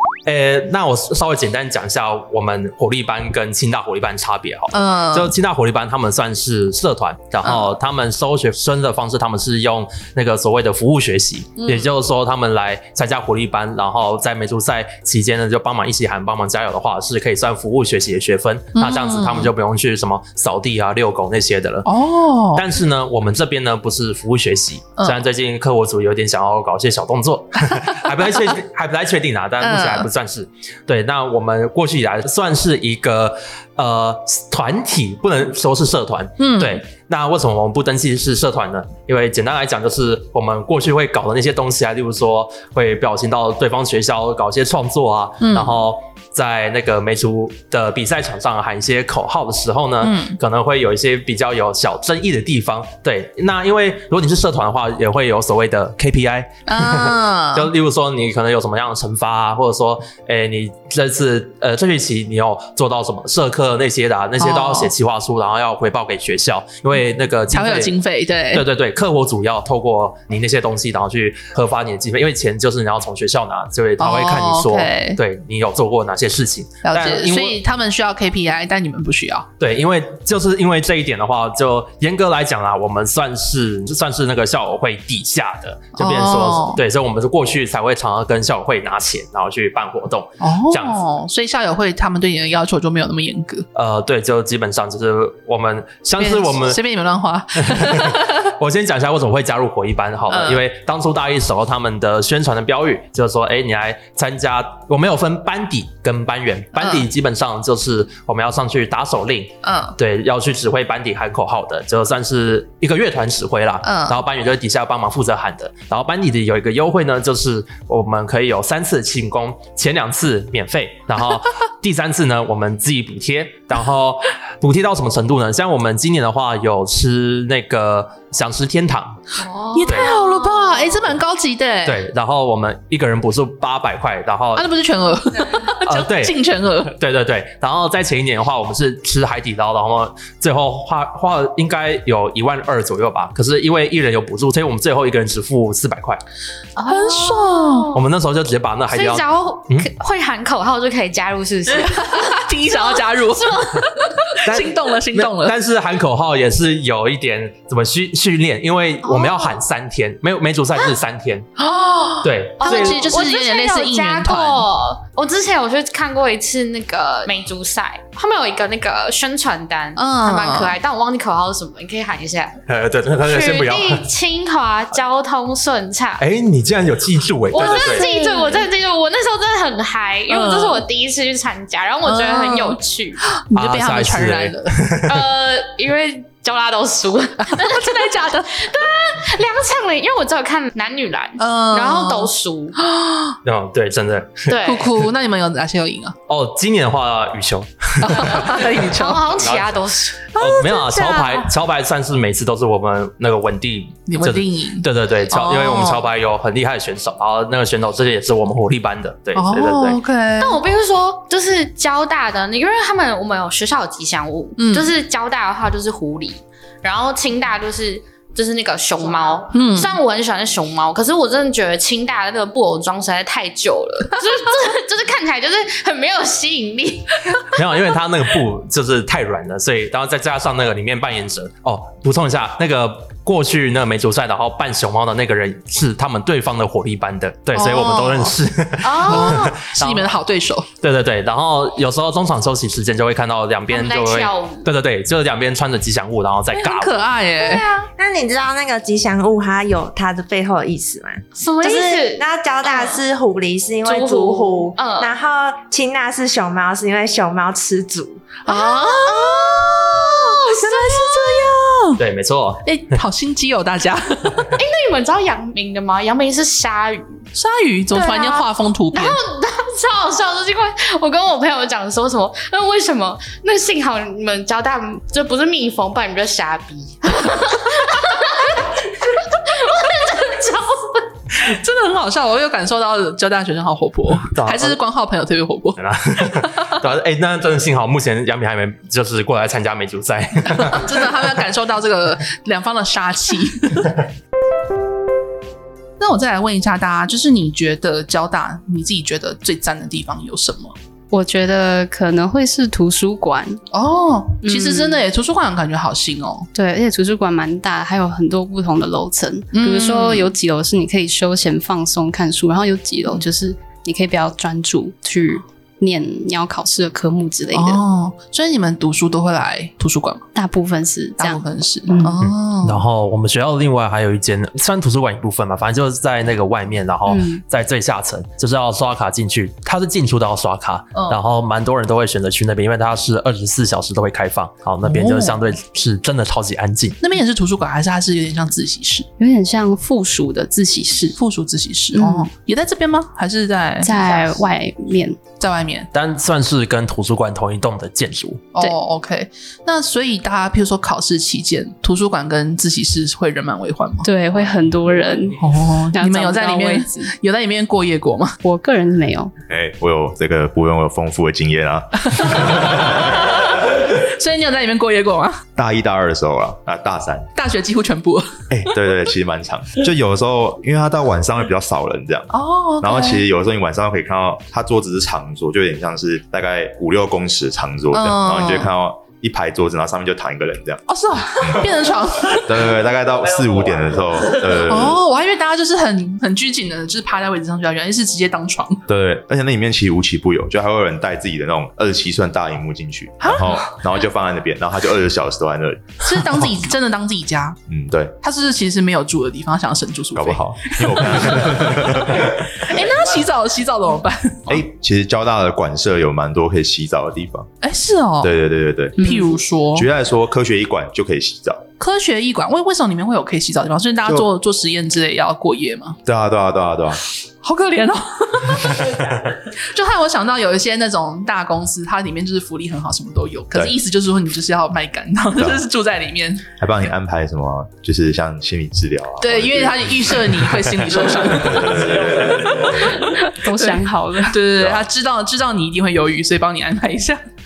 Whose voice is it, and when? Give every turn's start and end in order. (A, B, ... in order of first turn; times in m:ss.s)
0:00.2-0:21.9 A
0:04.7-0:05.3 B
0:07.4-0:07.7 B
0:11.6-0:11.9 B
0:18.7-0:19.5 B
0:21.8-0:22.6 B
0:22.5-1:07.9 A
0:29.6-0:30.1 B
0:36.4-0:36.8 B
0:45.4-0:45.7 B
0:50.0-0:50.4 B
0:56.7-0:57.7 B
1:04.4-1:04.9 B
1:07.5-1:08.6 B
1:08.5-1:17.6 A
1:14.0-1:15.2 B
1:16.8-1:19.5 B
1:19.6-1:31.0 A
1:26.0-1:26.8 B
1:30.4-1:33.6 B
1:33.7-1:36.8 A
1:36.2-1:38.5 B
1:37.7-2:09.2 A
1:40.3-1:40.6 B
1:46.8-1:47.0 B
1:49.6-1:49.9 B
1:53.8-1:54.2 B
2:09.3-2:11.0 C
2:09.7-2:12.0 B
2:11.8-2:14.7 A
2:14.5-2:16.9 B
2:15.8-2:26.2 A
2:26.8-2:28.0 C
2:26.9-2:27.9 B
2:27.9-2:29.9 A
2:28.9-2:33.8 C
2:31.7-2:35.6 B
2:34.4-2:41.5 A
2:39.2-2:39.5 C
2:41.6-2:44.7 B
2:42.2-2:43.1 A
2:42.6-2:52.6 C
2:50.0-2:50.8 B
2:52.7-2:54.0 A
2:53.2-2:56.2 C
2:56.2-2:58.1 A
2:57.5-3:03.2 C
2:57.6-2:58.6 B
3:00.3-3:00.8 B
3:02.0-3:05.0 B
3:03.5-3:05.2 A
3:05.1-3:12.8 C
3:07.5-3:08.7 B
3:11.4-3:13.4 B
3:13.4-3:14.5 A
3:14.5-3:14.9 C
3:14.6-3:16.2 B
3:16.3-3:18.7 A
3:18.0-3:19.2 B
3:18.9-3:20.3 C
3:19.3-3:19.8 A
3:20.3-3:21.5 B
3:20.4-3:30.0 A
3:24.0-3:26.0 B
3:29.3-3:30.6 B
3:30.4-3:47.3 C
3:34.6-3:34.9 B
3:39.5-3:40.0 B
3:47.5-4:00.1 A
3:57.5-3:58.3 B
3:58.8-3:59.4 C
3:59.0-4:00.7 B
4:00.8-4:06.9 A
4:03.7-4:04.7 C
4:06.5-4:07.7 B
4:07.4-4:07.9 C
4:08.0-4:18.3 D
4:11.4-4:13.0 C
4:13.8-4:15.1 C
4:18.4-4:21.5 C
4:18.5-4:22.0 B
4:22.0-4:23.0 A
4:22.6-4:24.5 B
4:24.6-4:27.2 C
4:27.3-4:29.2 B
4:27.9-4:41.0 C
4:41.3-4:45.8 B
4:44.3-4:44.8 A
4:45.8-4:51.0 A
4:46.3-4:46.7 B
4:50.6-4:53.9 B
4:56.0-5:00.7 B
5:01.1-5:03.6 E
5:03.7-5:06.5 B
5:04.4-5:05.0 E
5:06.5-5:17.8 E
5:09.5-5:10.3 B
5:17.5-5:20.2 B
5:20.3-5:22.1 E
5:21.2-5:22.8 B
5:22.2-5:37.0 A
5:27.1-5:27.4 E
5:30.9-5:31.2 B
5:34.8-5:35.4 B
5:37.0-5:39.1 B
5:39.2-5:41.2 E
5:41.2-5:44.4 B
5:41.9-5:42.3 E
5:43.8-5:45.2 E
5:45.4-5:45.9 B
5:45.9-5:48.5 A
5:48.5-5:54.1 B
5:54.0-5:57.1 E
5:55.4-5:58.4 B
5:58.4-5:59.3 E
5:59.5-6:03.2 F
6:02.1-6:05.4 B
6:05.6-6:07.3 F
6:07.4-6:08.4 B
6:08.5-6:20.8 F
6:12.3-6:13.2 B
6:17.9-6:18.7 B
6:20.9-6:22.7 B
6:22.3-6:25.0 F
6:24.7-6:28.8 B
6:28.9-6:36.2 F
6:33.2-6:33.7 B
6:36.0-6:37.6 B
6:37.7-6:38.2 F
6:38.2-6:44.6 B
6:40.1-6:42.5 F
6:44.5-6:47.5 F
6:47.6-6:48.3 B
6:48.2-6:49.1 F
6:49.0-6:49.9 B
6:49.7-6:51.6 F
6:51.8-6:56.0 B
6:56.0-6:57.0 F
6:57.4-6:59.0 B
6:59.6-7:06.4 B
7:06.6-7:13.0 F
7:09.2-7:17.2 B
7:13.4-7:14.5 E
7:14.6-7:14.8 F